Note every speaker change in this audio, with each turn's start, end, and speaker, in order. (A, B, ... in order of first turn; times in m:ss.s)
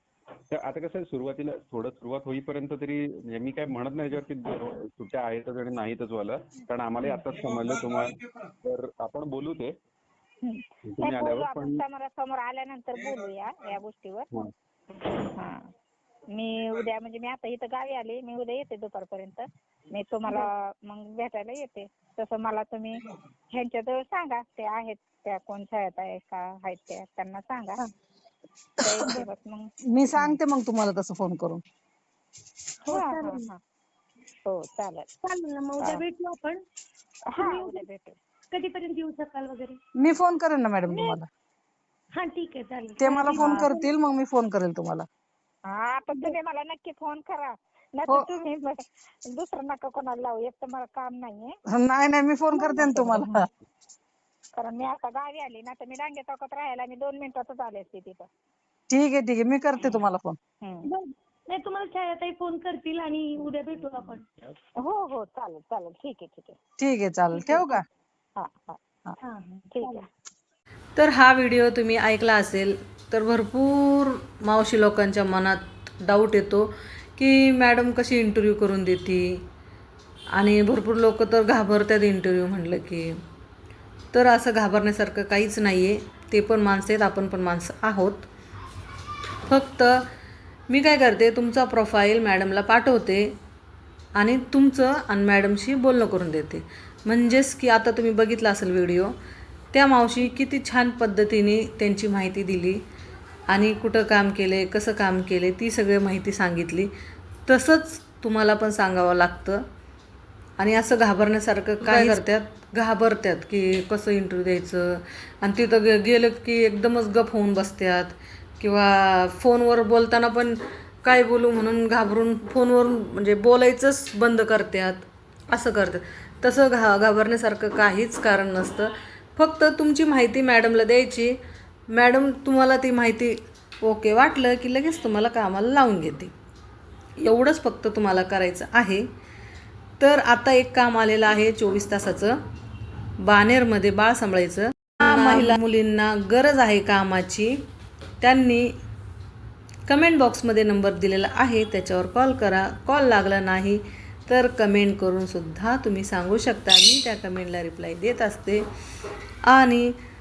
0:00.5-0:09.8 A
0:07.0-0:07.4 B
0:10.4-0:14.3 B
0:10.8-0:11.8 A
0:15.4-0:15.6 B
0:16.3-0:23.0 B
0:23.5-0:27.8 B
0:28.8-0:29.1 C
0:28.8-0:29.7 B
0:29.9-0:31.6 C
0:32.8-0:33.5 D
0:32.9-0:33.6 B
0:34.4-0:35.1 B
0:35.2-0:36.6 D
0:37.3-0:38.2 B
0:37.4-0:37.8 D
0:38.5-0:39.8 D
0:40.0-0:41.2 C
0:40.9-0:41.2 D
0:42.1-0:43.9 D
0:43.0-0:45.0 C
0:43.3-0:43.7 B
0:45.7-0:51.6 B
0:51.7-0:53.5 C
0:52.6-0:53.4 B
0:54.6-0:58.3 B
0:58.9-1:00.4 C
1:00.6-1:00.9 B
1:00.8-1:04.3 D
1:04.8-1:06.6 B
1:06.8-1:07.8 C
1:07.4-1:07.6 D
1:08.4-1:08.8 B
1:09.2-1:10.1 D
1:09.7-1:10.0 B
1:11.0-1:19.4 E
1:20.3-1:23.2 E
1:24.1-1:28.2 E
1:29.5-1:30.0 E
1:30.7-1:33.3 E
1:34.1-1:39.1 E
1:39.7-1:42.8 E
1:43.5-1:46.9 E
1:47.5-1:49.6 E
1:50.6-2:11.4 E
1:51.8-1:52.2 C
2:11.9-2:16.3 E
2:17.2-2:19.0 E
2:20.0-2:22.4 E
2:23.2-2:27.6 E
2:25.0-2:25.6 C
2:28.2-2:28.7 E
2:29.9-2:38.6 E
2:39.4-2:39.9 E